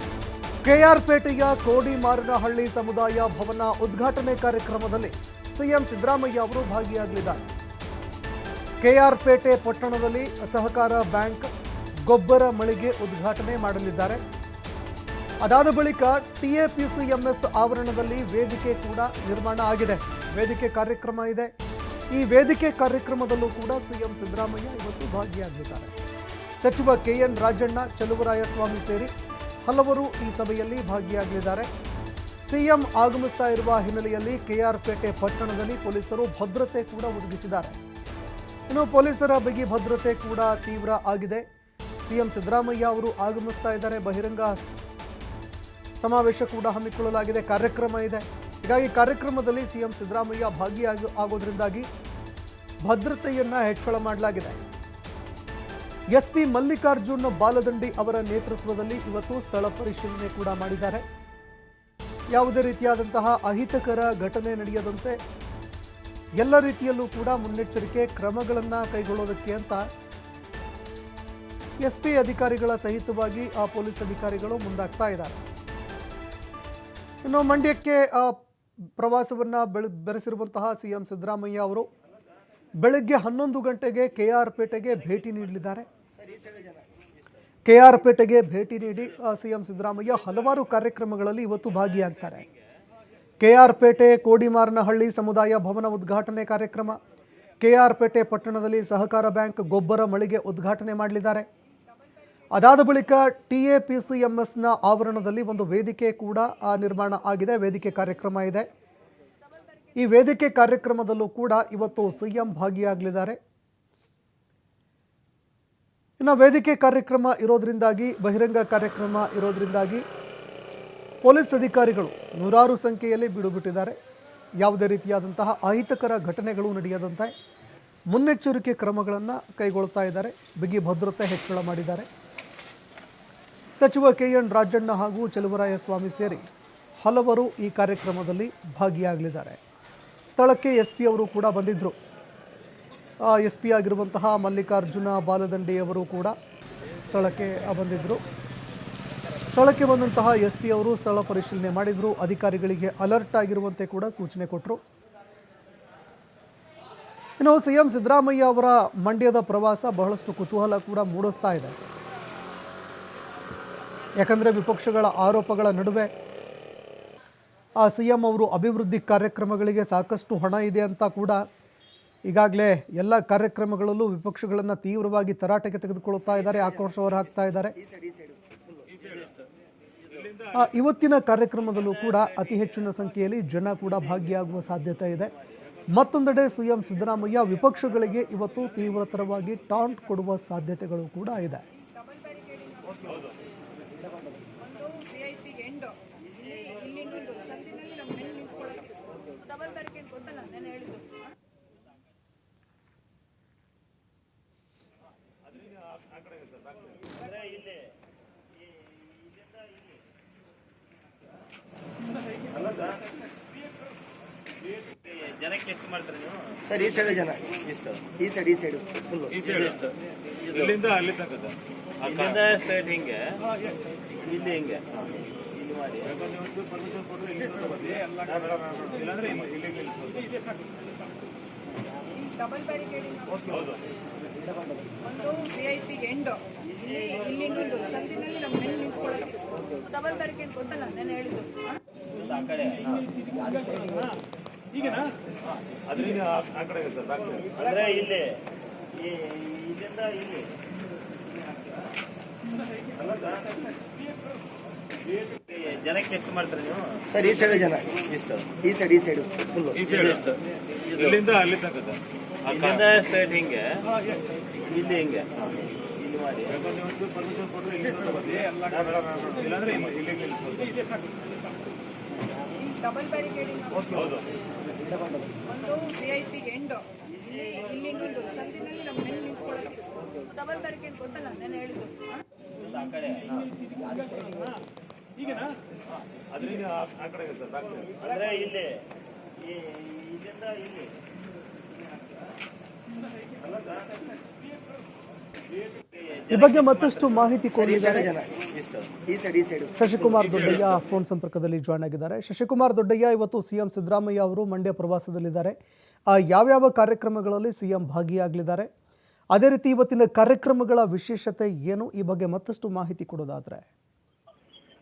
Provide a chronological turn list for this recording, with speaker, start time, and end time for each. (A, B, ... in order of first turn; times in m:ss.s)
0:00.6-0:07.5 A
0:08.8-0:11.5 A
0:12.0-0:14.2 A
0:15.4-0:21.5 A
0:22.1-0:25.9 A
0:26.6-0:29.1 A
0:29.7-0:31.7 A
0:32.4-0:37.8 A
0:38.7-0:41.4 A
0:42.0-0:44.7 A
0:46.0-0:51.9 A
0:52.8-0:54.6 A
0:56.1-1:01.0 A
1:02.3-1:05.2 A
1:06.4-1:09.9 A
1:11.8-1:15.4 A
1:17.2-1:18.4 A
1:19.0-1:21.9 A
1:22.8-1:25.9 A
1:26.2-1:26.8 B
1:27.7-1:32.5 A
1:33.4-1:37.0 A
1:37.6-1:41.5 A
1:42.6-1:48.7 A
1:50.0-1:53.4 A
1:56.2-2:00.0 A
2:01.2-2:04.0 A
2:04.6-2:07.3 A
2:08.1-2:12.1 A
2:13.8-2:16.4 A
2:17.0-2:19.6 A
2:20.3-2:22.0 A
2:23.2-2:26.4 A
2:27.0-2:28.2 A
2:29.5-2:34.8 A
2:37.4-2:41.8 A
2:44.2-2:46.1 A
2:47.8-2:51.4 A
2:52.3-2:57.8 A
2:57.8-2:58.8 B
2:59.0-2:59.4 C
3:00.1-3:00.5 C
3:00.5-3:05.3 A
3:05.9-3:11.6 A
3:12.0-3:12.8 D
3:14.6-3:16.0 D
3:16.5-3:21.1 D
3:26.1-3:26.8 C
3:27.2-3:27.7 E
3:35.0-3:38.0 E
3:36.7-3:37.4 B
3:38.2-3:39.3 B
3:39.3-3:39.9 C
3:40.3-3:40.6 E
3:40.5-3:42.4 C
3:42.1-3:43.4 E
3:44.2-3:46.2 E
3:46.2-3:50.3 C
3:52.3-3:53.4 D
3:53.4-3:53.8 C
3:55.1-3:56.4 D
3:56.9-3:57.5 E
3:57.0-3:59.4 D
3:59.9-4:01.7 D
4:02.2-4:04.0 E
4:05.8-4:07.6 C
4:07.6-4:08.4 E
4:09.1-4:10.5 E
4:15.5-4:18.6 E
4:17.2-4:17.9 B
4:18.6-4:19.8 B
4:19.8-4:20.4 C
4:19.9-4:20.2 E
4:21.0-4:22.8 C
4:22.5-4:23.8 E
4:24.7-4:26.6 E
4:26.6-4:30.8 C
4:32.7-4:33.9 D
4:33.9-4:34.2 C
4:35.6-4:42.2 D
4:42.6-4:44.1 E
4:46.4-4:48.0 C
4:48.0-4:48.8 E
4:49.6-4:50.9 E
4:55.9-4:56.2 E
4:56.3-4:58.2 A
4:57.6-4:58.3 B
4:58.4-4:58.9 E
4:59.0-4:59.8 B
4:59.8-5:05.6 A
5:06.1-5:08.7 A
5:09.3-5:13.7 A